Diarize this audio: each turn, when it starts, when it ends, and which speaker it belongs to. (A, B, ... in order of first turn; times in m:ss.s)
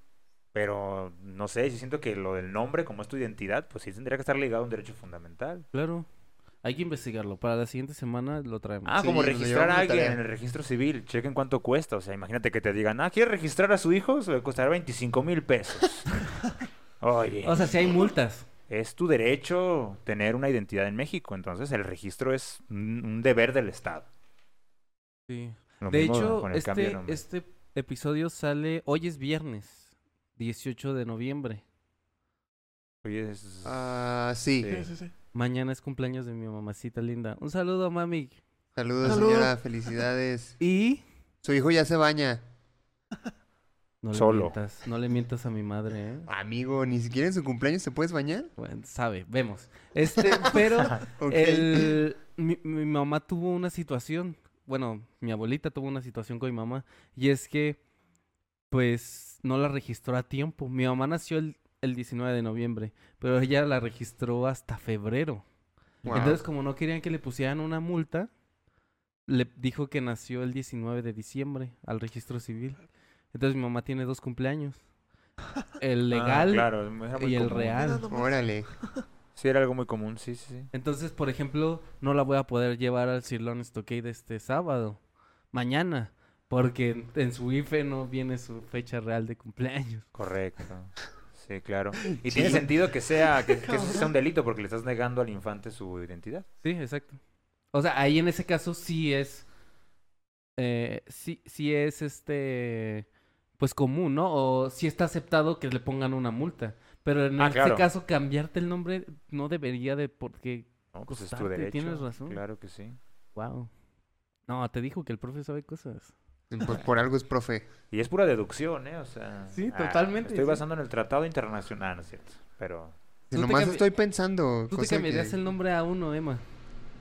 0:00.5-0:05.7 A
0:05.7-0:06.1 B
0:06.6-0:09.0 B
0:08.8-0:17.9 A
0:09.0-0:10.2 C
0:17.4-0:18.5 B
0:18.7-0:24.1 A
0:25.3-0:31.6 B
0:25.8-0:27.2 A
0:33.0-0:33.9 A
0:33.6-0:34.8 C
0:34.6-0:34.9 A
0:34.7-0:35.1 D
0:35.3-0:38.4 B
0:38.8-0:40.6 C
0:39.0-0:39.6 D
0:40.6-0:41.0 B
0:41.4-0:42.4 C
0:44.0-0:46.3 B
0:44.1-0:44.5 A
0:46.3-0:48.5 C
0:48.6-0:57.8 B
0:50.2-0:50.5 C
0:51.2-0:52.0 C
0:58.7-1:05.4 B
1:06.0-1:06.4 A
1:06.0-1:06.4 C
1:06.1-1:08.3 B
1:09.3-1:12.8 B
1:13.3-1:14.8 B
1:15.8-1:18.0 B
1:16.1-1:17.9 A
1:17.8-1:19.0 D
1:18.1-1:18.7 C
1:19.4-1:20.7 A
1:20.7-1:25.0 B
1:25.5-1:30.1 B
1:30.2-1:36.5 A
1:32.2-1:32.7 C
1:33.5-1:34.1 D
1:36.6-1:37.2 B
1:37.7-1:39.5 B
1:40.6-1:43.1 B
1:43.6-1:52.4 B
1:47.4-1:47.9 A
1:50.9-1:53.0 A
1:53.4-1:53.7 B
1:54.5-1:56.1 B
1:56.5-1:57.7 C
1:57.9-2:03.0 A
1:59.5-2:00.6 B
2:03.3-2:05.4 C
2:03.3-2:03.8 B
2:04.7-2:06.4 B